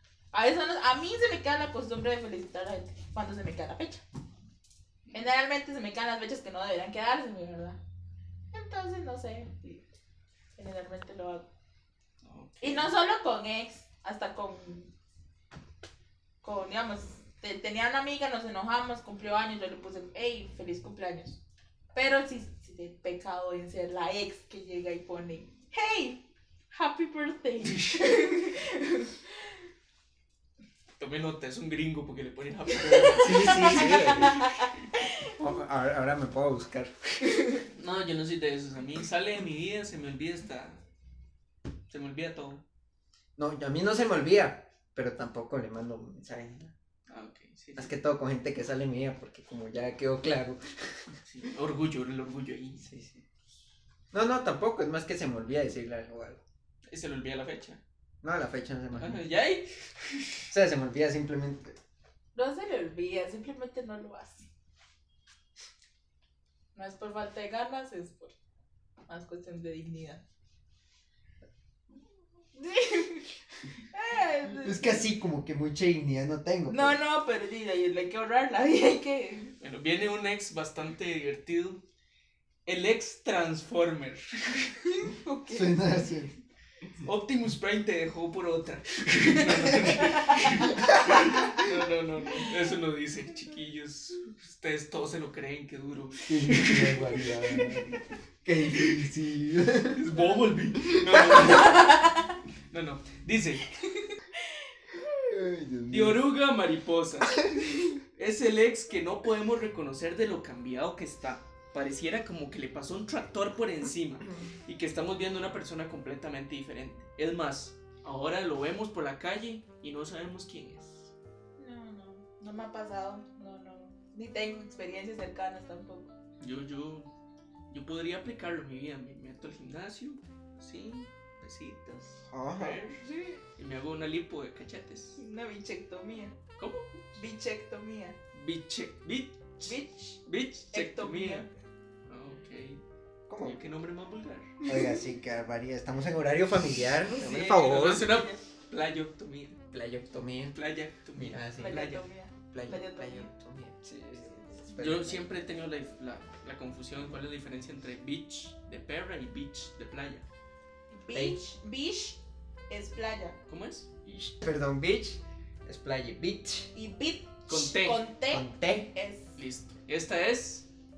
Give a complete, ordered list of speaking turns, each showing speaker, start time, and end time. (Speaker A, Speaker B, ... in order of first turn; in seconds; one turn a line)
Speaker A: 0.3-4.0
Speaker B: 5.0-5.3
Speaker A: 5.1-7.8
Speaker A: 8.5-9.8
Speaker A: 10.6-11.5
Speaker B: 12.2-12.9
Speaker A: 12.6-14.9
Speaker A: 16.4-21.4
Speaker A: 21.9-29.2
Speaker B: 27.7-28.0
Speaker B: 31.0-34.5
Speaker A: 32.9-35.3
Speaker C: 33.1-34.4
Speaker C: 35.3-37.3
Speaker A: 37.2-37.6
Speaker B: 37.7-40.8
Speaker B: 41.9-42.6
Speaker C: 43.4-46.7
Speaker B: 47.1-47.9
Speaker C: 47.8-51.1
Speaker B: 51.3-52.8
Speaker C: 52.8-53.2
Speaker C: 54.1-56.4
Speaker B: 56.9-57.8
Speaker C: 58.2-59.2
Speaker B: 59.0-60.4
Speaker C: 60.5-61.7
Speaker A: 62.3-64.5
Speaker A: 66.7-68.3
Speaker A: 69.1-70.2
Speaker A: 72.5-75.0
Speaker C: 74.6-77.0
Speaker A: 76.7-79.5
Speaker B: 79.6-81.8
Speaker B: 82.7-84.9
Speaker A: 84.9-85.8
Speaker C: 85.5-86.3
Speaker B: 86.9-97.8
Speaker A: 89.9-90.8
Speaker C: 90.9-91.6
Speaker C: 96.3-100.0
Speaker B: 98.7-99.0
Speaker B: 99.9-102.2
Speaker A: 100.1-100.5
Speaker C: 100.9-101.7
Speaker A: 101.4-102.3
Speaker B: 102.7-103.7
Speaker A: 103.8-104.6
Speaker C: 105.0-106.2
Speaker B: 105.9-107.5
Speaker B: 108.1-121.1
Speaker A: 121.6-126.1
Speaker B: 126.4-127.1
Speaker B: 127.7-133.0
Speaker C: 132.3-132.8
Speaker A: 133.0-133.4
Speaker B: 133.6-135.2
Speaker A: 135.2-136.4
Speaker B: 136.6-136.9
Speaker A: 137.2-138.2
Speaker B: 138.3-141.5
Speaker A: 139.6-140.2
Speaker A: 140.7-141.5
Speaker B: 142.1-142.8
Speaker C: 143.3-143.6
Speaker B: 143.4-144.6
Speaker C: 144.6-148.1
Speaker A: 147.1-148.4
Speaker B: 147.4-149.6
Speaker C: 149.7-150.6
Speaker B: 150.5-151.9
Speaker C: 151.1-155.3
Speaker A: 151.6-153.3
Speaker A: 154.3-154.6
Speaker B: 154.8-160.2
Speaker A: 160.9-162.2
Speaker A: 162.7-163.4
Speaker B: 163.5-163.9
Speaker C: 164.1-166.7
Speaker A: 166.7-169.3
Speaker B: 167.5-168.0
Speaker C: 168.3-168.9
Speaker B: 169.4-170.7